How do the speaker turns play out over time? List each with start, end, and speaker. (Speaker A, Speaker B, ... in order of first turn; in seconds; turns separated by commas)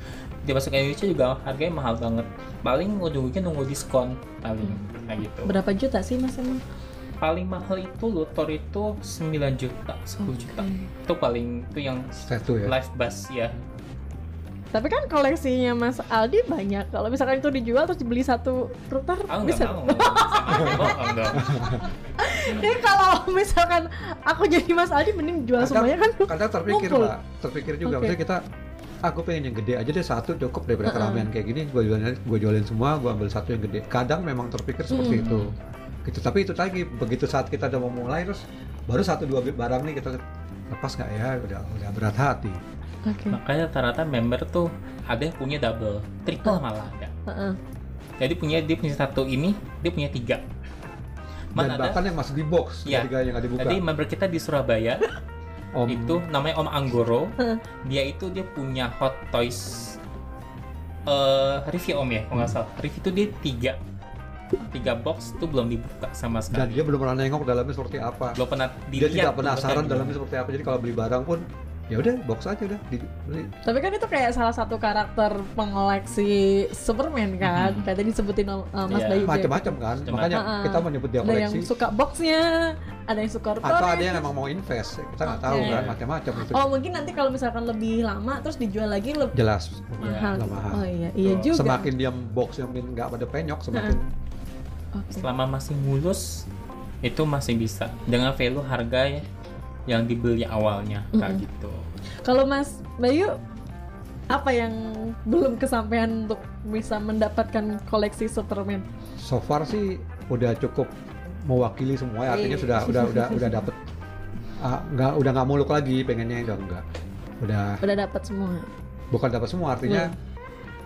Speaker A: 0.4-5.5, Speaker B: 5.4-6.6, Speaker A: 7.2-13.6, Speaker B: 10.2-10.9, Speaker C: 12.2-12.7, Speaker B: 14.7-27.1, Speaker A: 19.3-21.5, Speaker C: 21.3-21.8, Speaker C: 25.6-28.4, Speaker B: 27.8-28.1, Speaker C: 29.0-35.5, Speaker B: 30.8-31.3, Speaker B: 34.9-35.4, Speaker A: 35.1-35.5, Speaker C: 36.0-40.2, Speaker C: 40.7-42.6, Speaker B: 43.0-43.4, Speaker A: 43.3-47.1, Speaker B: 47.3-47.6, Speaker A: 48.2-50.4, Speaker A: 51.5-52.0, Speaker C: 51.5-53.8, Speaker A: 52.9-55.0, Speaker C: 55.7-56.2, Speaker A: 55.9-60.0, Speaker A: 61.1-63.8, Speaker A: 64.7-66.8, Speaker C: 66.5-68.4, Speaker A: 68.3-70.2, Speaker C: 69.0-73.5, Speaker B: 73.6-79.8, Speaker A: 77.4-77.9, Speaker A: 78.9-79.3, Speaker C: 79.2-81.7, Speaker A: 80.0-80.5, Speaker B: 80.3-84.3, Speaker C: 83.6-86.7, Speaker B: 85.2-89.3, Speaker A: 85.5-86.0, Speaker C: 89.3-90.9, Speaker A: 90.0-90.4, Speaker B: 90.0-91.9, Speaker A: 91.2-91.5, Speaker C: 91.5-94.1, Speaker B: 94.9-95.2, Speaker A: 95.2-96.5, Speaker A: 97.0-99.2, Speaker A: 99.9-101.8, Speaker B: 101.1-101.4, Speaker B: 102.2-103.4, Speaker B: 104.3-108.8, Speaker C: 109.2-110.9, Speaker C: 111.5-113.8, Speaker B: 112.3-113.6, Speaker C: 114.6-116.8, Speaker C: 117.4-117.8, Speaker B: 117.8-118.7, Speaker C: 119.1-120.1, Speaker B: 119.8-120.1